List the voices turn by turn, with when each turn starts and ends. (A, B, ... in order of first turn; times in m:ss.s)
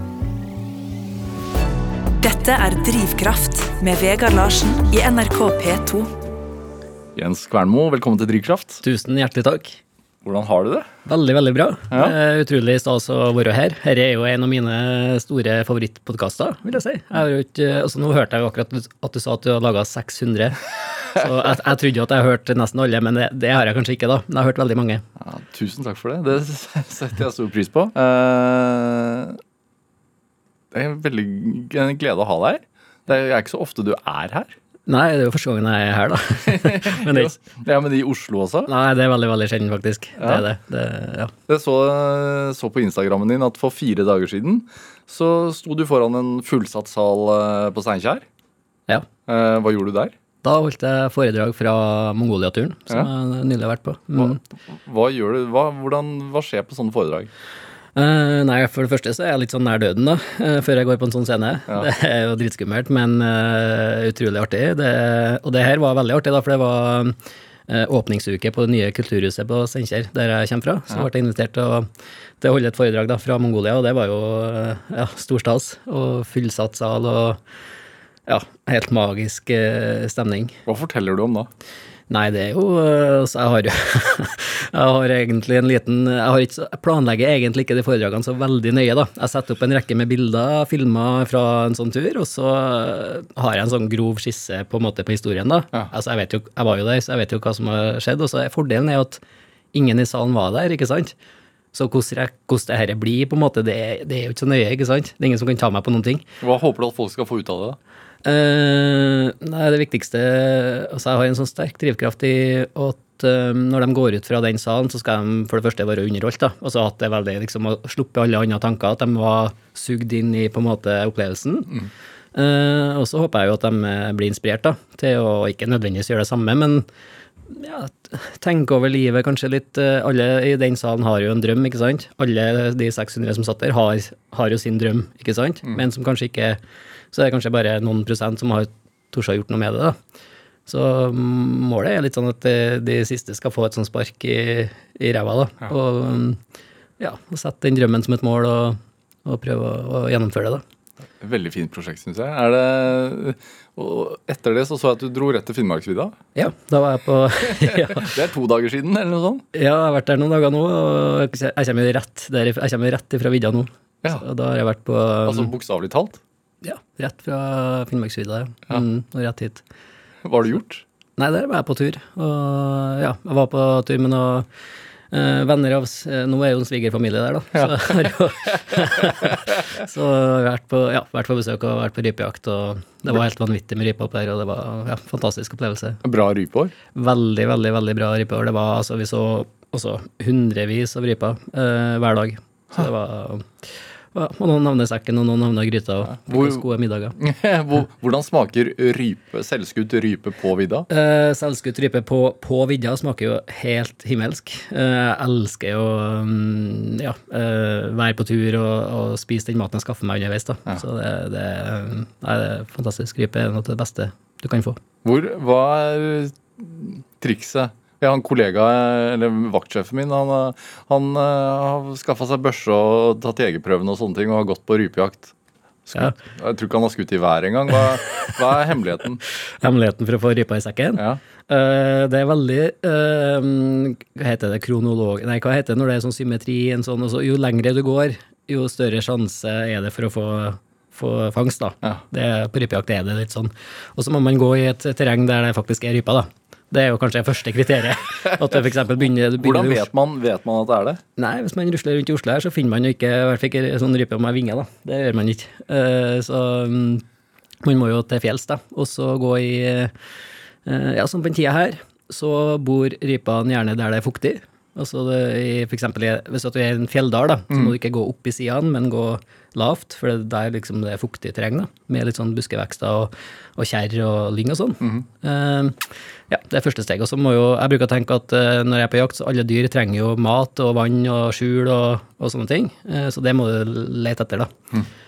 0:02.2-0:06.1 A
0:07.1-0:08.8 B
0:08.8-0:09.8 C
0:10.2-0:10.9 B
0:11.0-0:20.6 C
0:21.1-0:25.0 C
0:25.2-0:29.4 B
0:30.7-0:34.5 B
0:34.9-0:37.4 C
0:36.4-0:38.7 B
0:38.7-0:41.3 C
0:40.2-0:40.4 B
0:41.5-0:48.2 B
0:49.3-0:50.1 B
0:50.4-0:54.4 C
0:54.1-0:57.3 B
0:58.0-1:07.1 C
1:07.7-1:11.9 C
1:12.4-1:17.4 C
1:18.3-1:20.6 C
1:20.7-1:21.5 B
1:22.1-1:39.2 C
1:39.7-1:41.1 C
1:41.7-1:46.2 C
1:46.4-1:47.8 B
1:48.2-2:01.7 C
2:02.3-2:06.8 C
2:07.5-2:16.6 C
2:17.1-2:20.0 C
2:20.7-2:26.4 C
2:27.0-2:30.6 C
2:31.2-2:36.2 B
2:36.4-2:38.1 C
2:37.5-2:39.4 B
2:39.5-2:45.5 C
2:45.2-2:46.2 B
2:46.6-2:49.6 C
2:50.2-2:50.8 B
2:51.2-2:54.5 C
2:55.1-3:06.0 C
2:57.5-2:58.1 B
2:59.0-2:59.3 B
3:06.0-3:06.7 B
3:06.9-3:17.2 C
3:16.2-3:20.9 B
3:20.9-3:34.8 C
3:35.0-3:45.3 B
3:45.9-3:49.2 B
3:49.6-4:09.9 C
4:09.4-4:11.0 B
4:11.2-4:17.0 C
4:17.6-4:19.9 C
4:20.6-4:44.5 C